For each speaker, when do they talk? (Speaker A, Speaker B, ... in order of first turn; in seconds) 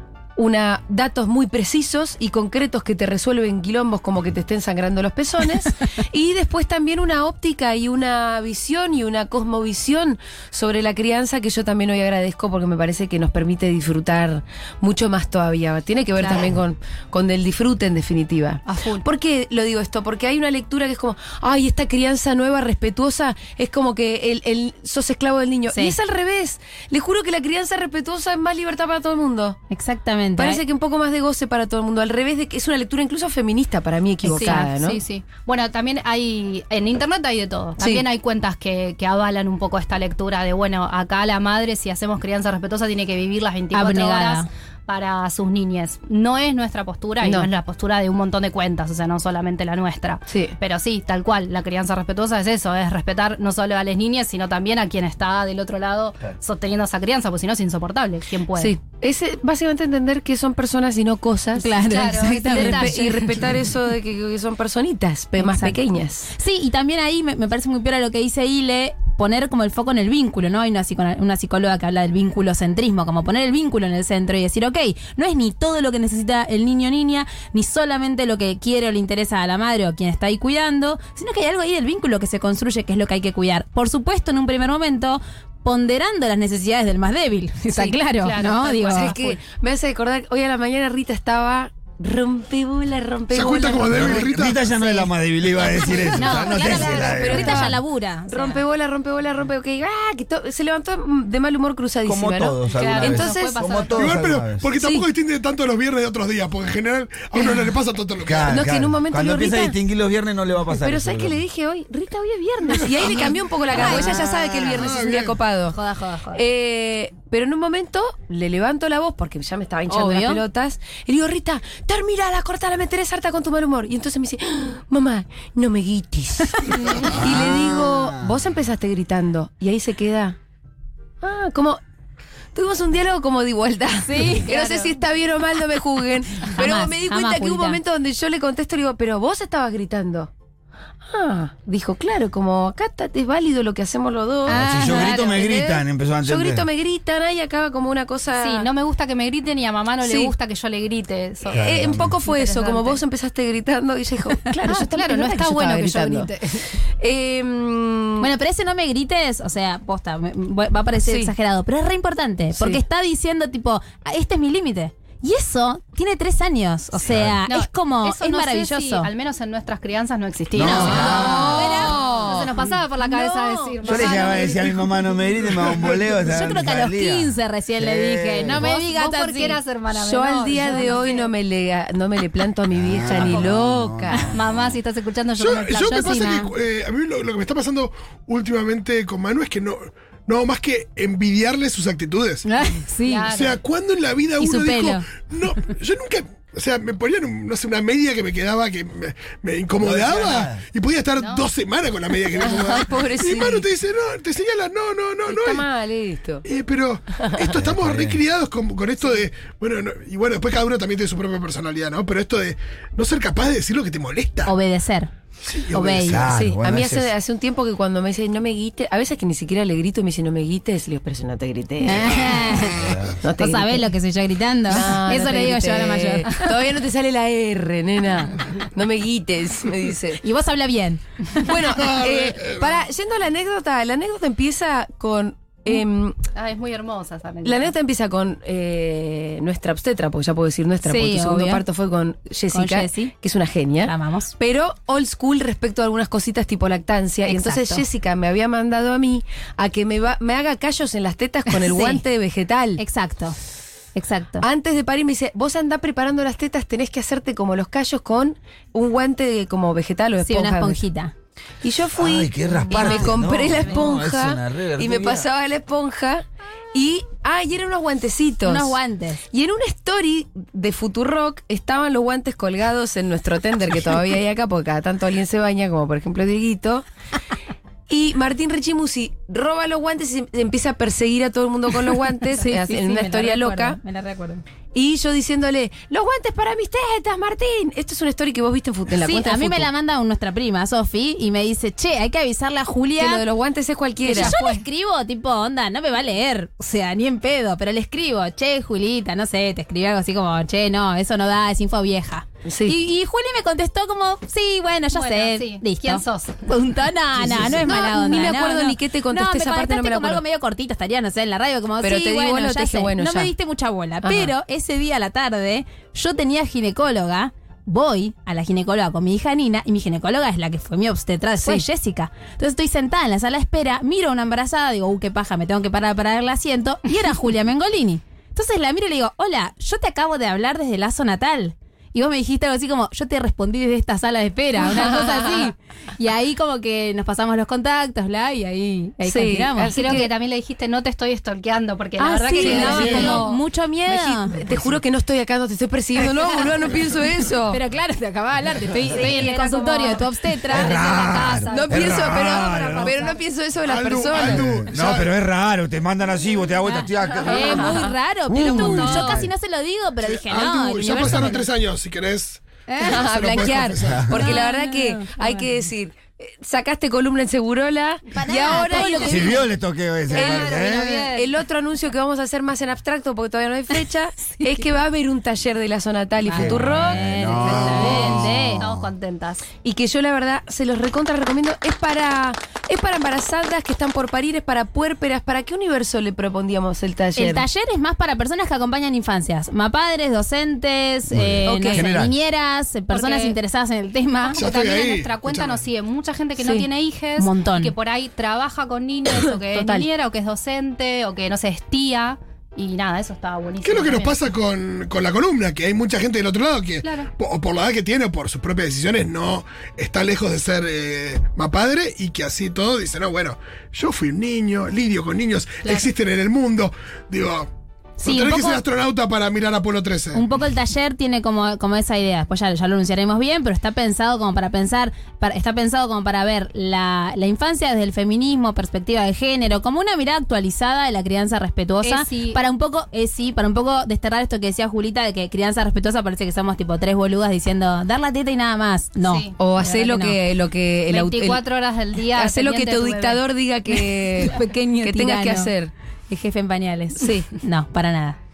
Speaker A: 0.4-29.6, 30.4-35.0, 47.2-47.5, 50.3-50.5, 58.5-66.3, 88.8-94.2, 96.6-103.8, 104.8-105.0, 108.5-109.8, 110.7-115.8, 116.3-130.3, 131.2-131.8, 132.5-140.3, 141.0-148.7, 150.0-150.3, 151.5-156.3, 156.8-158.3, 161.0-161.3, 162.6-162.8, 170.7-174.6, 179.9-184.3, 202.3-203.6, 205.2-206.4, 216.2-222.3, 223.2-223.9, 224.7-230.2, 231.4-236.2, 237.4-252.8, 254.4-260.8, 261.6-268.7, 269.3-276.8, 277.9-283.8, 284.7-289.7, 293.0-294.3, 302.4-302.8, 307.1-310.2, 311.8-313.3, 314.0-314.3, 334.6-335.5, 339.0-340.1, 342.1-343.2, 343.9-347.6, 351.5-354.4, 357.2-357.9, 362.8-369.4, 370.1-377.7, 379.6-387.4, 391.5-391.8, 396.4-396.7, 399.1-399.9, 439.4-441.4, 442.1-445.7, 447.0-447.3
Speaker B: 16.2-16.5, 18.7-19.1, 34.3-58.7, 61.8-63.4, 87.7-89.4, 96.2-97.4, 102.7-104.2, 134.3-134.9, 144.8-145.4, 148.4-153.0, 154.7-156.7, 167.5-174.7, 178.6-181.3, 183.2-183.5, 184.3-186.3, 193.1-193.6, 201.2-201.4, 236.3-237.7, 294.1-294.6, 304.9-306.5, 339.7-343.4, 348.9-353.2, 358.6-359.0, 368.8-369.1, 370.1-371.3, 378.6-379.4, 392.9-393.4, 394.3-404.2, 406.8-407.1, 415.6-415.9, 431.8-432.4, 439.0-439.3, 440.9-443.2
Speaker C: 29.7-30.6, 34.2-34.7, 43.7-44.5, 61.5-62.9, 65.4-65.8, 66.3-89.2, 94.8-95.1, 96.2-98.6, 113.7-114.2, 115.7-116.4, 119.9-120.4, 126.6-126.9, 134.0-134.5, 136.5-137.8, 144.5-145.1, 158.2-169.1, 170.6-172.7, 176.3-179.6, 185.8-186.5, 192.4-193.3, 194.4-195.0, 214.4-215.1, 215.7-216.2, 221.8-226.5, 230.2-231.5, 240.8-241.6, 242.5-243.1, 243.8-244.3, 247.3-247.8, 251.6-252.0, 252.8-253.3, 253.9-254.4, 260.2-261.1, 262.7-263.4, 268.4-269.2, 282.3-284.4, 289.0-293.2, 294.1-339.8, 342.0-344.4, 347.5-351.5, 356.6-361.4, 362.7-363.1, 364.1-365.4, 368.1-369.4, 376.2-378.6, 387.2-394.5, 397.2-397.7, 418.0-418.6, 420.1-440.2, 443.7-445.5, 446.1-448.2
Speaker D: 93.3-94.6, 103.9-108.6, 113.9-115.4, 126.9-127.2, 185.4-192.4, 193.3-205.6, 206.4-214.5, 215.4-216.2, 231.7-232.8, 353.6-355.1, 358.5-359.2, 360.0-364.3, 377.4-378.3, 394.4-395.6, 403.6-417.5, 418.0-420.2
Speaker E: 93.9-97.7, 102.0-104.7, 108.2-111.4, 126.9-128.4, 144.5-146.7, 151.5-152.1, 167.0-167.4, 170.5-171.9, 173.8-178.6, 182.7-184.7, 199.8-200.6, 207.6-208.2, 215.8-217.1, 222.8-223.1, 261.9-265.3, 342.7-343.1, 350.5-352.9, 354.1-359.3, 361.0-361.3, 369.0-370.9, 376.3-378.9, 391.1-392.1